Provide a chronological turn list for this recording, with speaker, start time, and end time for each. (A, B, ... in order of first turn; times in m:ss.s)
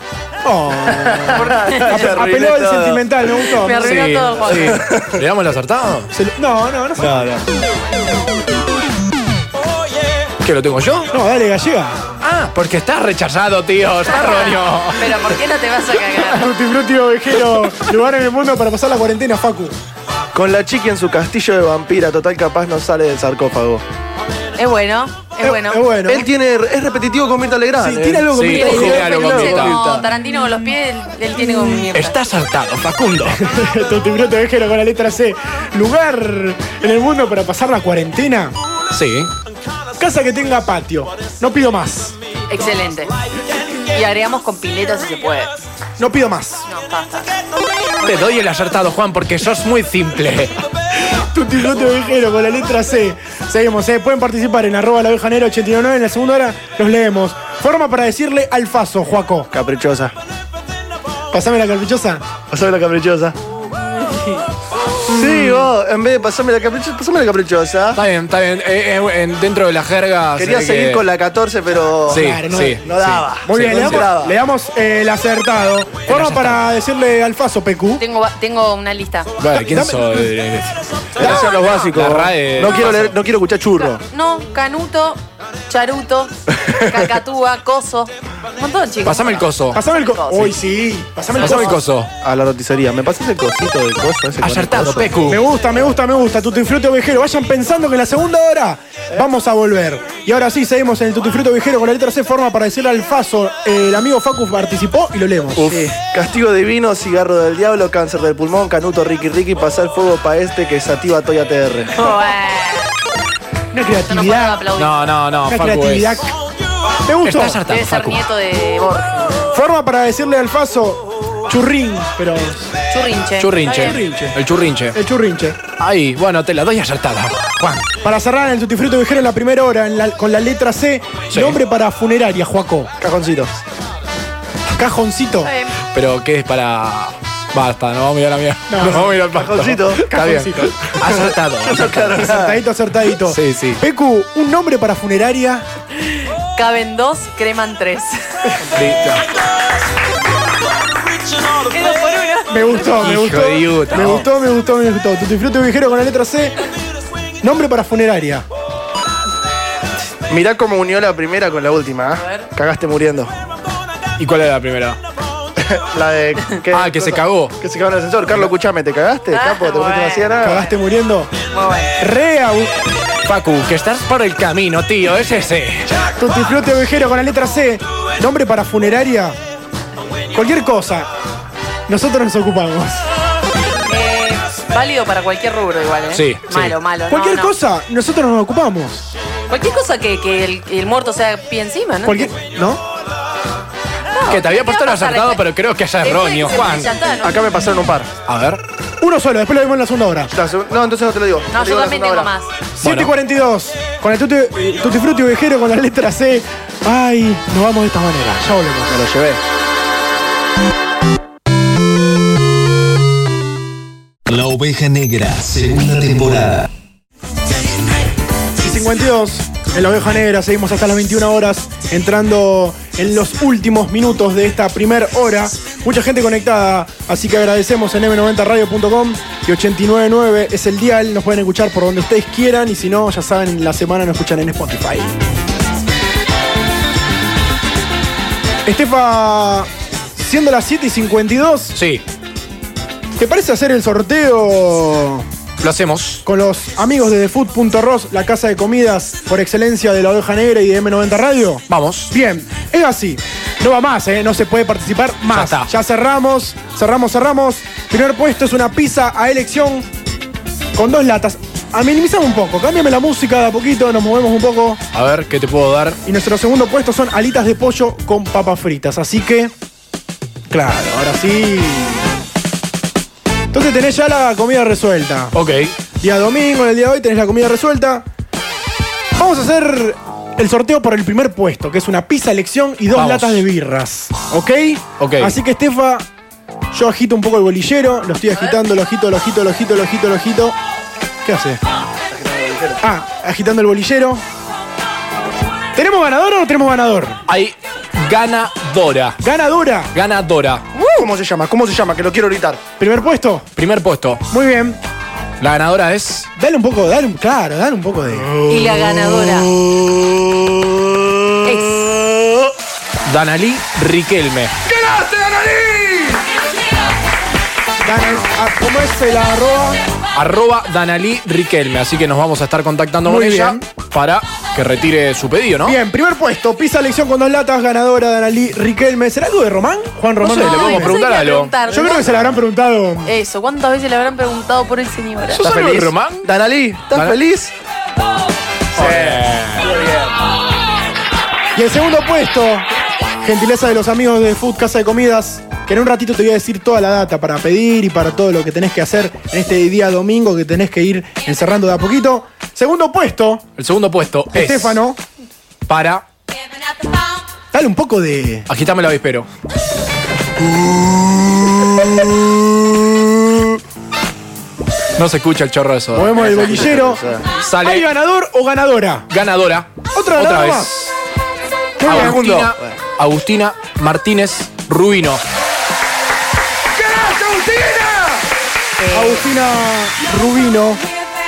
0:00.4-0:04.1 A
0:00.9-0:03.3 B
0:01.3-0:02.1 C
0:03.6-0:04.8 C
0:03.8-0:06.1 D
0:04.5-0:05.2 B
0:06.1-0:07.3 A
0:07.0-0:07.4 B
0:10.4-0:11.1 D
0:11.1-0:12.1 A
0:12.2-0:15.2 D
0:14.1-0:16.5 C
0:16.1-0:19.8 A
0:20.3-0:23.8 B
0:24.6-0:25.8 C
0:25.4-0:26.3 A
0:26.1-0:30.1 B
0:27.8-0:29.1 A
0:28.3-0:29.8 D
0:28.5-0:32.2 C
0:31.9-0:33.4 D
0:33.3-0:38.6 A
0:38.9-0:39.3 D
0:40.0-0:42.2 A
0:42.5-0:43.1 C
0:43.8-0:45.6 C
0:46.0-0:46.6 A
0:46.7-0:47.4 C
0:48.0-0:50.6 D
0:51.0-0:59.5 A
0:59.5-1:00.1 B
1:01.3-1:02.2 A
1:02.5-1:03.4 B
1:05.1-1:08.0 B
1:05.2-1:05.6 A
1:08.0-1:11.0 D
1:10.4-1:14.4 B
1:12.1-1:14.1 D
1:12.1-1:18.0 A
1:16.1-1:16.6 D
1:18.0-1:19.3 C
1:19.4-1:23.2 D
1:19.6-1:20.3 A
1:21.2-1:24.0 B
1:21.2-1:21.9 C
1:24.1-1:30.5 C
1:29.0-1:29.8 D
1:29.7-1:31.8 A
1:31.4-1:31.6 C
1:31.4-1:32.1 D
1:32.2-1:35.2 B
1:34.4-1:35.4 D
1:35.2-1:45.7 A
1:45.6-1:52.1 B
1:52.0-1:52.9 C
1:53.7-1:54.7 A
1:54.0-1:55.1 C
1:54.8-1:56.2 D
1:55.5-1:56.3 A
1:57.1-1:57.6 A
1:57.2-1:58.2 D
1:57.7-1:59.5 C
1:59.5-2:02.7 A
2:02.9-2:04.0 C
2:03.4-2:05.0 D
2:03.8-2:04.4 A
2:04.9-2:05.6 A
2:05.7-2:07.9 D
2:08.0-2:13.5 A
2:14.7-2:15.5 A
2:15.4-2:15.8 C
2:15.9-2:22.3 D
2:18.7-2:19.3 A
2:19.3-2:20.1 B
2:20.0-2:20.9 A
2:21.0-2:22.6 B
2:22.2-2:25.7 A
2:23.2-2:23.8 D
2:26.6-2:28.5 C
2:28.7-2:29.2 D
2:31.5-2:33.1 C
2:32.5-2:36.6 A
2:33.0-2:34.3 D
2:37.4-2:38.5 A
2:40.3-2:43.3 B
2:42.2-2:42.5 C
2:44.2-2:45.0 D
2:45.6-2:50.6 B
2:46.7-2:47.6 D
2:49.3-2:50.4 C
2:50.4-2:51.3 A
2:51.5-2:52.0 C
2:52.0-2:52.7 A
2:53.2-2:56.0 D
2:56.1-2:59.4 A
3:00.3-3:01.1 A
3:01.9-3:03.1 A
3:03.9-3:07.6 C
3:06.1-3:06.8 D
3:07.1-3:09.1 A
3:09.5-3:12.3 C
3:12.0-3:12.8 A
3:14.1-3:15.4 C
3:14.3-3:17.0 D
3:16.0-3:17.5 C
3:17.2-3:18.1 B
3:18.3-3:18.6 D
3:19.0-3:20.3 A
3:20.3-3:22.3 B
3:21.5-3:22.5 C
3:22.8-3:29.1 A
3:22.8-3:23.1 D
3:28.9-3:29.4 B
3:34.3-3:36.7 E
3:38.6-3:55.2 A
3:58.6-4:01.8 A
4:01.8-4:02.0 D
4:03.2-4:05.3 A
4:05.6-4:06.2 D
4:06.3-4:19.9 A
4:11.7-4:12.1 D
4:15.3-4:15.7 D
4:20.8-4:24.8 A
4:24.9-4:26.0 D
4:26.0-4:29.5 A
4:30.5-4:32.1 A
4:33.5-4:35.4 A
4:35.3-4:35.7 D
4:36.0-4:38.1 A
4:39.2-4:46.1 A
4:42.9-4:43.4 D
4:45.0-4:45.3 D
4:46.7-4:50.6 A
4:51.2-4:51.6 A
4:52.1-4:52.8 B
4:52.8-4:54.2 A
4:55.8-4:57.2 A
4:57.3-4:59.2 D
4:59.2-4:59.9 A
4:59.9-5:00.7 D
5:00.8-5:02.6 B
5:02.8-5:03.5 A
5:03.6-5:04.2 D
5:04.3-5:04.8 A
5:05.4-5:06.3 D
5:06.4-5:08.4 A
5:08.5-5:09.5 C
5:08.5-5:09.0 B
5:11.4-5:11.9 C
5:13.0-5:14.6 D
5:14.8-5:15.6 A
5:17.8-5:19.8 A
5:20.2-5:25.8 D
5:23.0-5:23.6 A
5:25.6-5:31.0 A
5:30.2-5:31.6 D
5:30.3-5:32.1 C
5:31.7-5:33.1 A
5:33.0-5:35.5 C
5:35.3-5:36.3 D
5:35.4-5:37.5 B
5:38.8-5:39.7 D
5:38.8-5:40.1 B
5:41.6-5:42.7 A
5:43.2-5:53.5 A
5:53.6-5:54.8 D
5:54.3-5:55.0 A
5:55.7-5:56.0 D
5:57.5-5:58.5 A
5:58.5-5:59.3 D
6:05.0-6:06.4 D
6:05.9-6:07.0 A
6:06.1-6:07.3 B
6:07.4-6:07.9 D
6:07.6-6:09.1 A
6:09.1-6:10.9 D
6:09.9-6:10.9 A
6:11.8-6:12.6 A
6:11.8-6:15.2 D
6:16.7-6:18.3 A
6:18.8-6:19.3 C
6:18.9-6:20.8 A